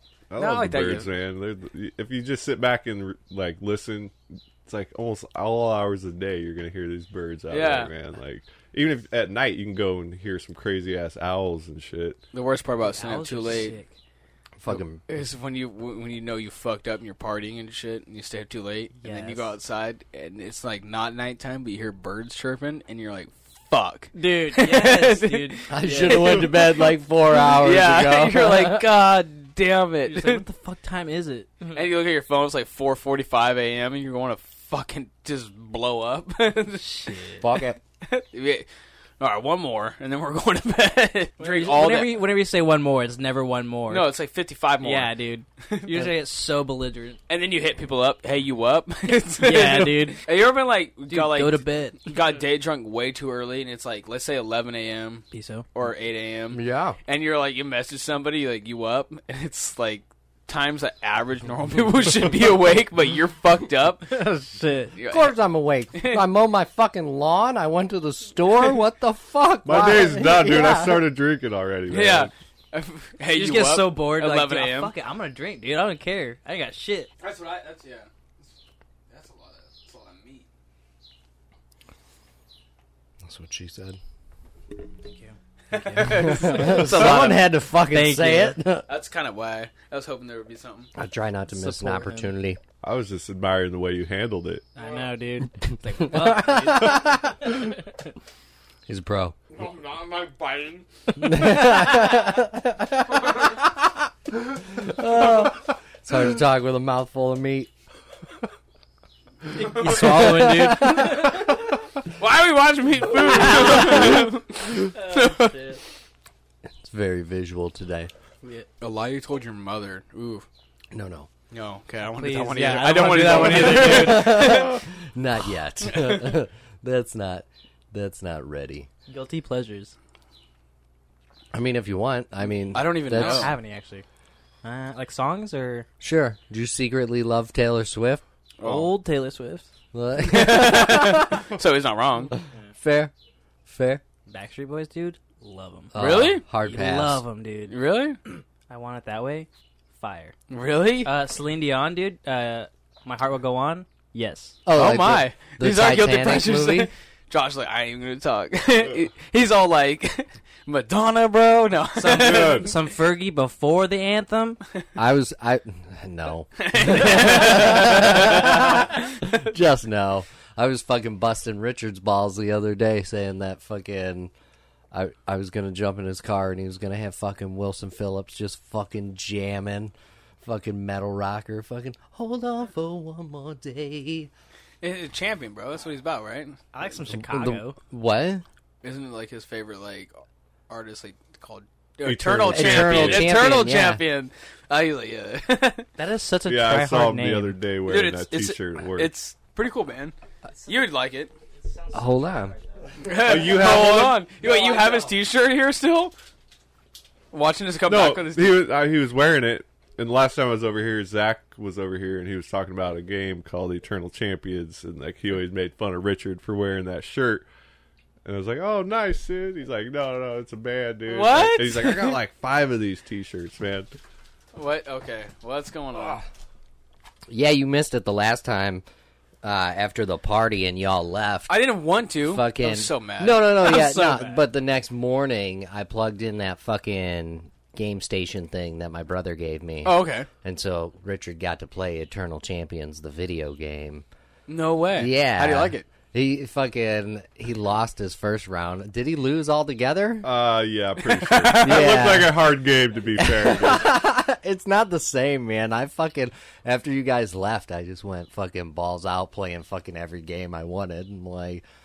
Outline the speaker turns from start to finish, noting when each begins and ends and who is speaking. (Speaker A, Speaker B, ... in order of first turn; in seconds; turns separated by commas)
Speaker A: 0.3-12.2, Speaker B: 0.4-1.1, Speaker B: 7.5-7.9, Speaker B: 12.3-13.8, Speaker C: 12.9-13.9, Speaker D: 14.6-15.0, Speaker B: 15.1-30.4, Speaker C: 19.0-19.5, Speaker C: 24.1-26.5, Speaker D: 25.7-28.9, Speaker C: 30.1-31.8, Speaker B: 31.7-37.2, Speaker C: 36.8-37.4, Speaker D: 37.4-37.8, Speaker B: 38.0-38.7, Speaker B: 39.2-42.2, Speaker C: 41.4-44.1, Speaker B: 43.9-46.0, Speaker C: 44.8-47.2, Speaker B: 47.3-64.2, Speaker C: 49.4-50.2, Speaker C: 51.1-52.1, Speaker C: 55.3-55.7, Speaker D: 56.5-57.0, Speaker C: 64.1-65.0, Speaker B: 65.0-65.4, Speaker D: 65.1-71.1, Speaker B: 65.9-66.2, Speaker A: 69.7-72.3, Speaker B: 71.9-74.9, Speaker C: 73.3-77.1, Speaker B: 77.2-78.1, Speaker B: 79.1-80.5, Speaker D: 83.2-84.0, Speaker C: 85.0-87.2, Speaker B: 85.7-87.4, Speaker D: 86.0-88.9, Speaker C: 87.9-88.6, Speaker B: 88.9-90.9, Speaker D: 91.0-92.6, Speaker C: 91.5-92.3, Speaker A: 92.8-94.7, Speaker C: 94.8-97.8, Speaker D: 96.1-97.4, Speaker D: 98.9-99.4, Speaker B: 99.6-100.8, Speaker D: 101.2-107.7, Speaker C: 109.5-111.5, Speaker D: 109.6-111.6, Speaker B: 112.2-115.8, Speaker C: 113.3-114.3, Speaker D: 113.6-114.2, Speaker C: 114.9-115.8, Speaker D: 116.8-118.1, Speaker B: 118.8-120.5, Speaker D: 120.9-121.3, Speaker B: 121.5-124.8, Speaker C: 122.2-124.7, Speaker D: 123.3-128.9, Speaker B: 125.9-126.3, Speaker C: 129.1-129.9, Speaker D: 131.5-133.5, Speaker B: 132.7-133.5, Speaker C: 133.1-134.1, Speaker C: 134.6-135.9, Speaker D: 136.0-138.2, Speaker B: 138.6-138.9, Speaker C: 138.6-139.7, Speaker D: 139.9-141.5, Speaker B: 140.2-142.3, Speaker D: 142.8-143.1, Speaker D: 143.7-144.0, Speaker C: 144.3-145.9, Speaker D: 145.9-147.2, Speaker B: 146.0-146.4, Speaker C: 146.6-150.3, Speaker B: 147.7-148.2, Speaker B: 150.5-151.1, Speaker C: 151.0-154.6, Speaker D: 154.7-156.9, Speaker B: 154.7-162.7, Speaker C: 162.0-164.6, Speaker A: 162.1-162.7, Speaker D: 165.0-174.3, Speaker B: 166.6-169.1, Speaker D: 174.9-184.3, Speaker B: 184.8-186.6, Speaker C: 186.7-187.8, Speaker D: 187.1-188.4, Speaker B: 188.8-190.1, Speaker B: 190.7-195.9, Speaker A: 192.0-193.3, Speaker D: 192.5-194.0, Speaker C: 196.0-197.6, Speaker A: 196.5-199.1, Speaker B: 197.9-201.3, Speaker C: 201.7-202.6, Speaker D: 201.9-202.6, Speaker B: 203.0-206.1, Speaker A: 203.2-204.2, Speaker C: 204.4-205.1, Speaker B: 207.3-208.7, Speaker A: 207.9-217.4, Speaker A: 218.2-223.9, Speaker B: 221.1-222.2, Speaker B: 224.5-226.2, Speaker D: 227.3-228.8, Speaker D: 229.4-231.5, Speaker B: 231.5-234.3, Speaker D: 232.3-244.1, Speaker B: 239.8-240.3, Speaker B: 244.5-245.9, Speaker D: 245.0-250.3, Speaker A: 250.2-254.0, Speaker B: 251.2-252.0, Speaker D: 251.6-252.5, Speaker D: 253.2-261.6